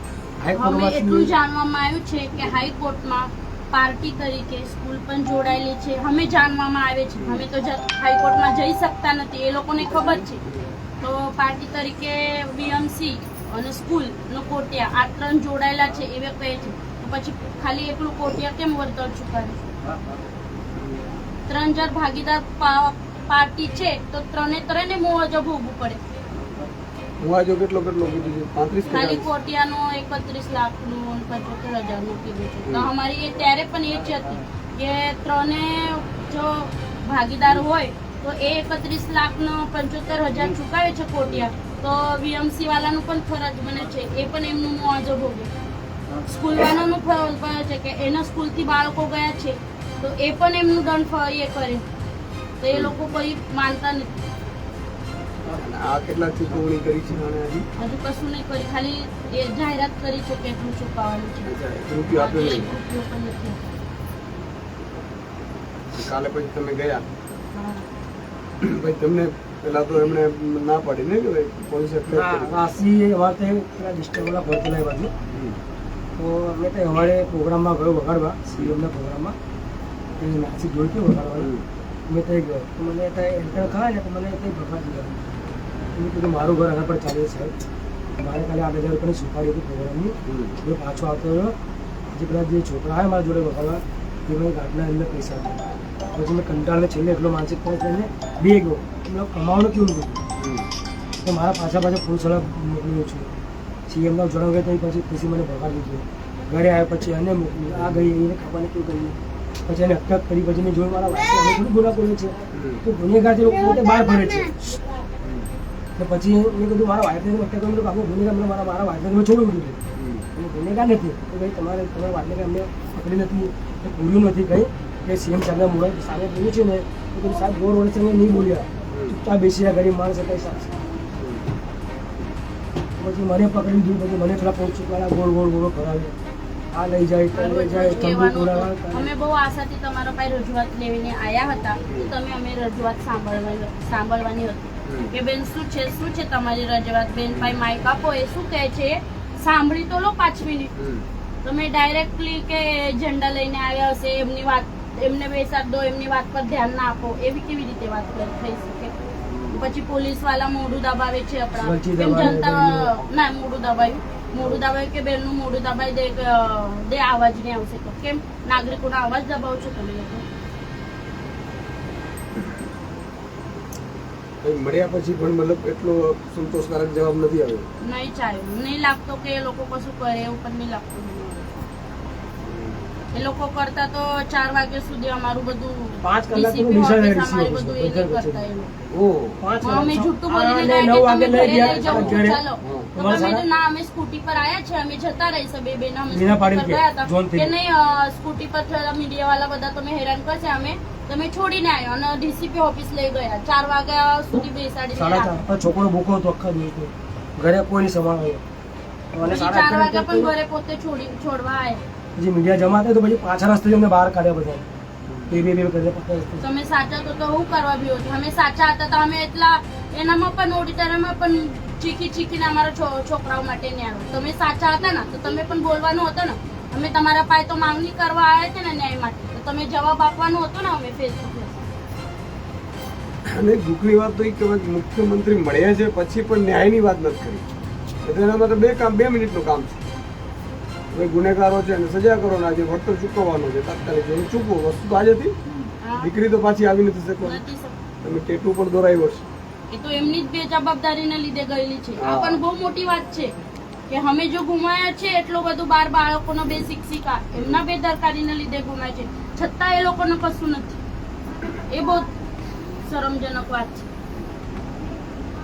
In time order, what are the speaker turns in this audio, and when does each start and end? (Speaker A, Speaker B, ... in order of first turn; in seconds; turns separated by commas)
Speaker A: 0.4-1.3, Speaker B: 0.5-10.4, Speaker C: 7.2-7.4, Speaker B: 11.0-19.6, Speaker C: 20.7-21.0, Speaker B: 21.5-26.0, Speaker C: 27.2-29.3, Speaker B: 28.9-45.5, Speaker C: 32.6-32.9, Speaker B: 46.2-51.8, Speaker B: 52.6-54.1, Speaker C: 52.7-53.0, Speaker C: 55.5-57.7, Speaker B: 57.8-61.5, Speaker C: 61.4-62.7, Speaker B: 62.1-63.6, Speaker C: 65.9-67.1, Speaker B: 67.5-67.9, Speaker C: 68.6-72.6, Speaker A: 72.1-75.1, Speaker C: 75.3-75.6, Speaker A: 76.2-79.3, Speaker C: 78.5-78.8, Speaker A: 80.2-81.5, Speaker C: 81.4-81.7, Speaker A: 82.1-85.2, Speaker C: 83.5-83.8, Speaker A: 85.9-87.5, Speaker A: 88.2-91.5, Speaker C: 90.2-90.5, Speaker A: 92.1-95.6, Speaker A: 96.2-100.2, Speaker C: 100.4-100.7, Speaker A: 101.2-103.3, Speaker A: 103.9-114.7, Speaker C: 112.5-112.8, Speaker C: 115.2-115.5, Speaker A: 116.0-119.8, Speaker C: 119.9-120.2, Speaker A: 120.3-130.8, Speaker C: 128.9-129.2, Speaker C: 131.2-131.5, Speaker A: 133.0-136.2, Speaker A: 136.7-139.1, Speaker B: 137.3-150.7, Speaker C: 141.9-142.1, Speaker C: 144.8-145.1, Speaker C: 150.8-151.1, Speaker B: 151.4-158.9, Speaker C: 159.2-159.6, Speaker B: 159.5-170.2, Speaker A: 161.6-162.9, Speaker C: 164.4-164.6, Speaker C: 172.3-172.6, Speaker C: 174.4-177.7, Speaker B: 177.8-181.5, Speaker C: 182.4-182.9, Speaker B: 183.1-188.7, Speaker A: 186.0-188.4, Speaker C: 188.9-189.4, Speaker A: 189.4-192.4, Speaker B: 189.6-205.3, Speaker C: 191.8-192.9, Speaker A: 192.9-193.4, Speaker A: 196.1-197.5, Speaker A: 204.9-208.4, Speaker A: 209.1-210.3, Speaker B: 209.2-211.8, Speaker A: 212.2-214.7, Speaker C: 215.1-215.5, Speaker A: 215.3-216.4, Speaker B: 216.4-231.6, Speaker C: 233.2-237.4, Speaker C: 238.0-239.8, Speaker C: 240.9-245.4, Speaker B: 245.8-246.1, Speaker C: 245.9-247.4, Speaker B: 247.2-247.8, Speaker C: 248.0-249.3, Speaker B: 249.7-253.3, Speaker C: 252.0-252.4, Speaker B: 253.9-260.8, Speaker C: 257.3-257.6, Speaker B: 261.7-262.1, Speaker B: 262.8-263.9